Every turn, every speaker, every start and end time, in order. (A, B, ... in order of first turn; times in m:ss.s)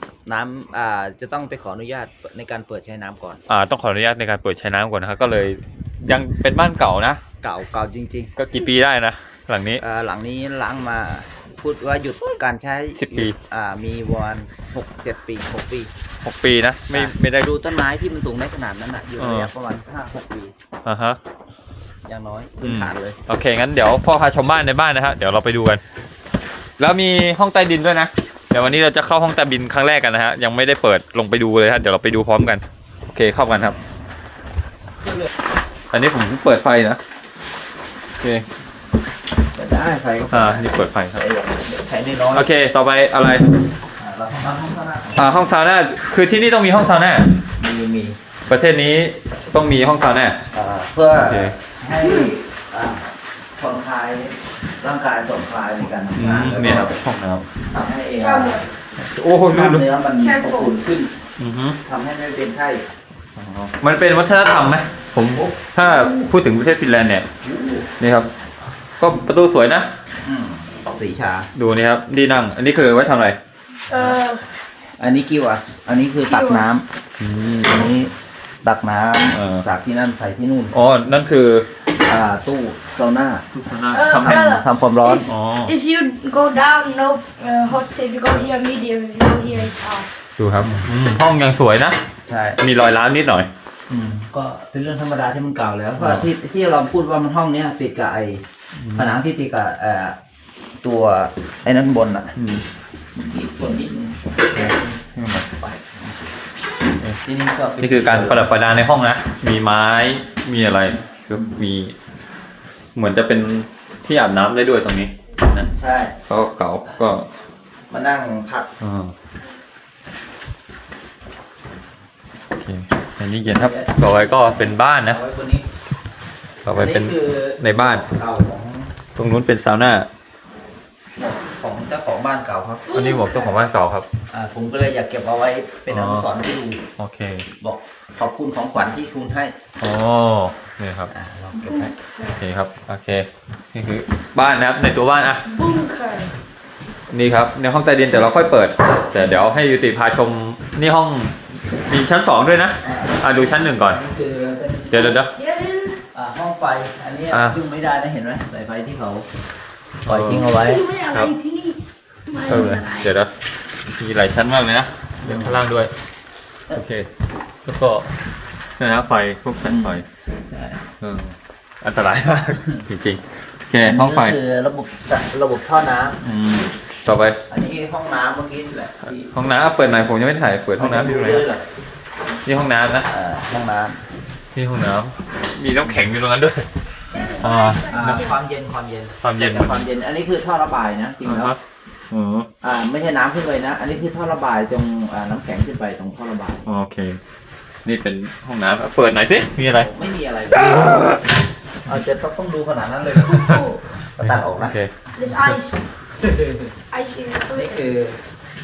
0:00.3-0:03.4 A
0:03.5-0:07.2 B
0:07.4-0:08.3 A
0:08.4-0:09.8 B
0:09.8-0:15.9 A
0:13.0-0:13.4 B
0:16.2-0:17.5 B
0:16.9-0:20.5 A
0:19.2-0:19.5 B
0:20.8-0:21.2 B
0:22.1-0:23.2 A
0:22.6-0:25.8 B
0:26.8-0:33.8 B
0:35.9-0:37.0 B
0:38.2-0:38.4 B
0:39.5-0:42.5 A
0:40.3-0:41.2 B
0:42.3-0:43.5 B
0:44.0-0:45.4 A
0:45.2-0:47.3 B
0:47.6-0:48.2 A
0:48.5-0:50.4 B
0:50.5-0:57.0 A
0:51.2-0:51.6 B
0:56.1-0:57.5 B
0:57.6-0:58.7 A
0:58.2-0:58.6 C
0:59.0-0:59.8 B
0:59.5-1:01.2 A
1:00.2-1:00.7 C
1:01.4-1:01.8 B
1:01.8-1:02.9 A
1:03.4-1:07.3 B
1:07.4-1:07.9 A
1:08.0-1:08.3 B
1:09.0-1:09.9 B
1:10.2-1:11.5 A
1:11.6-1:13.4 B
1:13.9-1:14.3 A
1:13.9-1:14.4 C
1:15.0-1:16.8 A
1:16.3-1:16.7 C
1:17.2-1:18.0 B
1:17.6-1:20.8 A
1:19.3-1:19.6 B
1:20.7-1:21.7 B
1:21.9-1:23.5 A
1:23.5-1:24.7 B
1:23.9-1:30.1 C
1:24.0-1:25.3 A
1:25.2-1:25.8 B
1:30.4-1:32.0 B
1:32.3-1:32.6 A
1:32.6-1:33.5 B
1:33.9-1:38.4 A
1:36.0-1:36.3 B
1:38.8-1:39.1 B
1:39.0-1:40.2 A
1:40.8-1:42.4 A
1:42.4-1:42.6 B
1:43.2-1:45.0 A
1:44.5-1:45.5 B
1:45.5-1:46.2 A
1:47.2-1:48.5 A
1:47.8-1:52.0 B
1:53.0-1:55.7 B
1:55.7-1:56.2 A
1:56.3-1:57.3 B
1:57.9-1:58.7 A
1:58.8-1:59.1 B
2:02.6-2:05.2 B
2:03.4-2:05.6 A
2:06.6-2:08.1 B
2:06.7-2:09.0 A
2:09.2-2:10.1 B
2:11.2-2:13.0 A
2:12.9-2:14.1 B
2:12.9-2:13.6 C
2:14.3-2:16.8 A
2:15.9-2:16.3 B
2:17.0-2:17.5 B
2:17.6-2:19.6 A
2:19.8-2:21.1 B
2:21.1-2:22.0 A
2:21.6-2:22.4 C
2:22.4-2:25.5 B
2:25.5-2:26.3 C
2:27.1-2:34.0 B
2:28.8-2:29.2 A
2:32.8-2:35.2 A
2:34.9-2:35.3 B
2:35.3-2:36.0 C
2:36.1-2:39.3 A
2:37.3-2:37.6 B
2:40.0-2:40.9 A
2:40.1-2:40.5 B
2:40.3-2:43.1 C
2:42.4-2:43.3 B
2:43.9-2:45.9 B
2:45.2-2:45.6 A
2:46.8-2:47.1 B
2:47.6-2:48.1 B
2:48.8-2:50.0 B
2:49.6-2:50.8 A
2:51.0-2:54.4 B
2:53.8-2:56.2 A
2:56.2-2:57.4 B
2:57.5-2:59.5 A
2:59.2-3:01.5 B
3:00.8-3:01.6 A
3:02.4-3:03.1 B
3:03.1-3:04.0 A
3:04.6-3:06.7 B
3:07.2-3:11.5 A
3:07.2-3:08.2 C
3:07.2-3:08.3 B
3:09.2-3:09.9 B
3:11.2-3:11.6 B
3:12.1-3:12.5 B
3:12.6-3:16.7 A
3:16.7-3:17.2 B
3:17.8-3:19.9 B
3:19.7-3:21.2 A
3:20.7-3:21.1 B
3:21.8-3:24.8 A
3:23.4-3:25.6 B
3:23.4-3:23.8 C
3:25.2-3:25.8 C
3:26.2-3:26.8 A
3:26.9-3:27.8 C
3:27.5-3:28.2 A